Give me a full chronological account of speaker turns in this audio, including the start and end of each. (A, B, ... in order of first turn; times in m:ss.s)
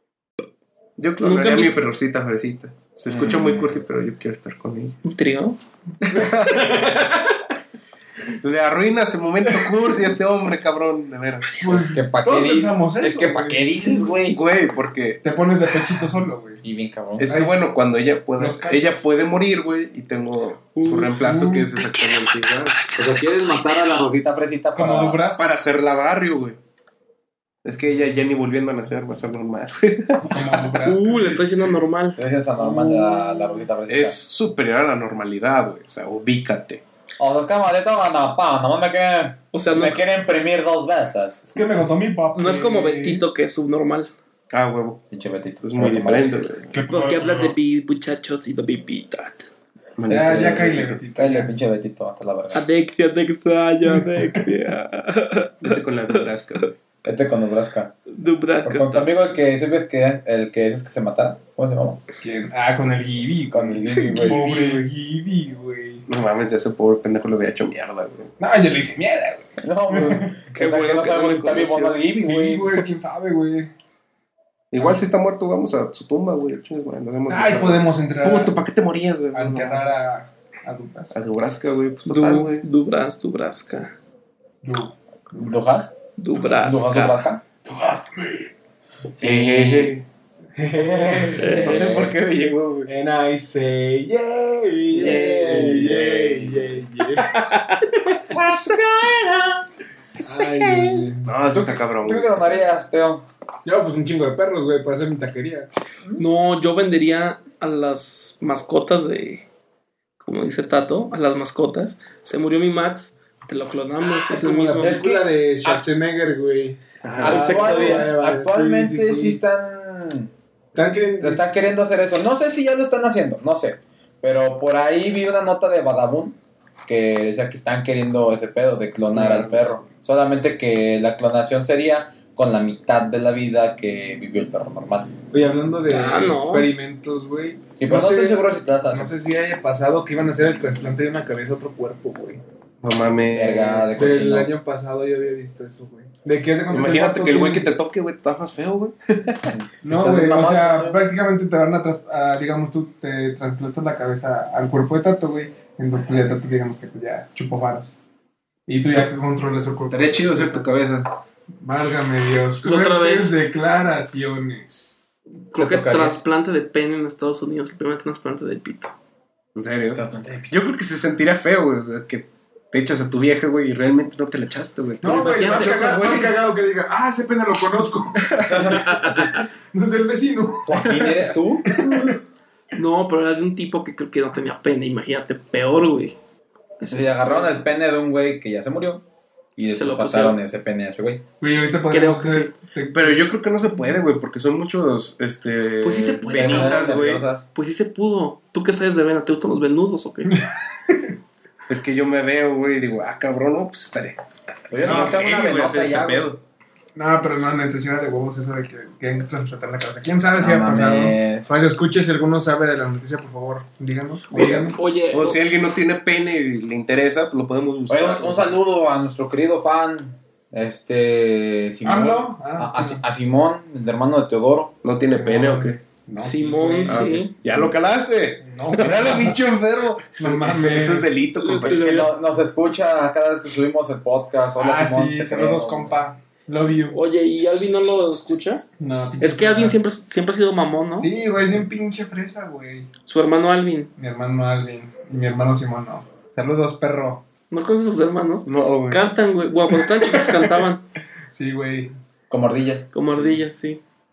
0:01.0-0:05.0 A
0:01.2-0:01.8 B
0:03.1-0:03.8 C
0:05.0-0:05.6 B
0:06.0-0:07.2 D
0:06.1-0:06.8 A
0:08.4-0:11.6 A
0:09.6-0:09.8 D
0:11.5-0:11.9 B
0:11.6-0:14.2 D
0:11.9-0:14.4 C
0:14.3-0:15.2 A
0:15.2-0:16.6 D
0:16.6-0:17.4 C
0:17.2-0:22.8 A
0:18.4-0:19.1 D
0:20.8-0:24.1 B
0:21.1-0:21.7 D
0:23.0-0:25.2 C
0:24.7-0:25.5 D
0:25.4-0:26.6 A
0:27.6-0:30.7 A
0:30.2-0:31.4 D
0:30.8-0:33.5 B
0:32.2-0:34.2 C
0:33.9-0:36.8 A
0:37.2-0:41.4 C
0:39.5-0:40.0 B
0:41.5-0:43.2 D
0:42.4-0:44.1 B
0:44.5-0:45.0 A
0:45.1-0:46.5 C
0:45.6-0:46.7 A
0:46.7-0:47.6 D
0:46.8-0:49.5 B
0:50.0-0:51.0 A
0:50.1-0:51.5 D
0:50.2-0:52.7 C
0:52.5-0:56.3 B
0:53.9-0:54.4 D
0:55.6-0:56.8 A
0:57.0-0:58.0 C
0:58.1-0:59.1 B
0:58.6-1:02.0 C
1:02.2-1:06.1 D
1:03.5-1:04.4 C
1:04.1-1:04.8 A
1:06.1-1:08.3 A
1:08.4-1:10.3 D
1:09.6-1:12.9 C
1:10.6-1:11.9 B
1:12.2-1:13.7 D
1:14.7-1:19.9 A
1:17.3-1:18.6 D
1:19.3-1:21.2 D
1:21.1-1:22.7 A
1:22.1-1:24.0 B
1:24.6-1:25.7 D
1:25.4-1:26.0 C
1:26.2-1:27.2 B
1:26.6-1:27.4 C
1:27.7-1:28.5 D
1:29.2-1:30.0 C
1:29.2-1:30.0 A
1:30.6-1:31.8 D
1:30.7-1:32.2 C
1:31.4-1:31.9 B
1:31.6-1:32.9 A
1:32.9-1:37.4 D
1:35.0-1:36.8 A
1:35.0-1:36.0 C
1:37.4-1:37.7 B
1:38.3-1:39.7 C
1:40.2-1:41.3 D
1:40.3-1:41.1 B
1:41.2-1:42.7 A
1:41.5-1:43.2 C
1:43.6-1:45.7 D
1:46.2-1:49.5 B
1:50.2-1:55.0 B
1:54.3-1:59.4 D
1:54.8-1:55.8 C
1:57.0-1:57.5 A
1:57.2-2:00.3 C
1:57.2-1:58.1 B
2:00.8-2:01.5 D
2:01.2-2:15.1 C
2:09.1-2:09.7 A
2:15.3-2:22.4 D
2:15.9-2:16.7 B
2:17.8-2:19.1 C
2:22.8-2:24.1 A
2:23.3-2:24.5 C
2:24.0-2:27.7 D
2:26.7-2:29.5 A
2:29.5-2:31.0 C
2:29.8-2:38.0 D
2:38.7-2:40.7 D
2:39.9-2:41.1 A
2:41.6-2:45.0 D
2:42.6-2:43.4 B
2:45.5-2:49.0 B
2:45.6-2:46.2 C
2:49.6-2:56.3 A
2:50.0-2:50.5 C
2:55.0-2:59.2 D
2:55.0-2:56.3 B
2:58.5-2:59.4 C
2:59.0-2:59.2 B
2:59.7-3:02.2 D
3:00.7-3:01.7 C
3:01.8-3:02.2 B
3:02.7-3:06.2 B
3:06.8-3:07.6 B
3:06.9-3:09.0 C
3:09.6-3:11.2 C
3:09.7-3:10.4 B
3:11.4-3:13.3 D
3:11.9-3:12.5 B
3:12.9-3:17.2 A
3:15.8-3:20.4 B
3:16.3-3:17.5 C
3:20.3-3:21.1 D
3:21.7-3:26.4 A
3:24.7-3:26.3 C
3:24.8-3:25.2 D
3:27.0-3:34.8 D
3:30.4-3:31.6 C
3:34.3-3:35.4 B
3:35.1-3:38.6 A
3:37.9-3:44.8 C
3:41.8-3:43.0 D
3:44.8-3:45.8 A
3:45.1-3:47.2 D
3:46.2-3:47.3 B
3:46.9-3:52.0 A
3:47.4-3:47.7 C
3:48.4-3:49.4 D
3:50.2-3:51.1 D
3:51.4-3:52.1 B
3:51.7-3:56.0 C
3:54.6-3:57.0 D
3:56.9-3:58.7 B
3:58.8-3:59.8 D
3:59.2-4:01.1 B
4:01.0-4:02.9 D
4:03.1-4:03.9 B
4:04.0-4:07.2 D
4:07.5-4:10.8 B
4:08.5-4:09.1 A
4:11.3-4:11.9 D
4:12.3-4:12.9 C
4:12.9-4:13.8 B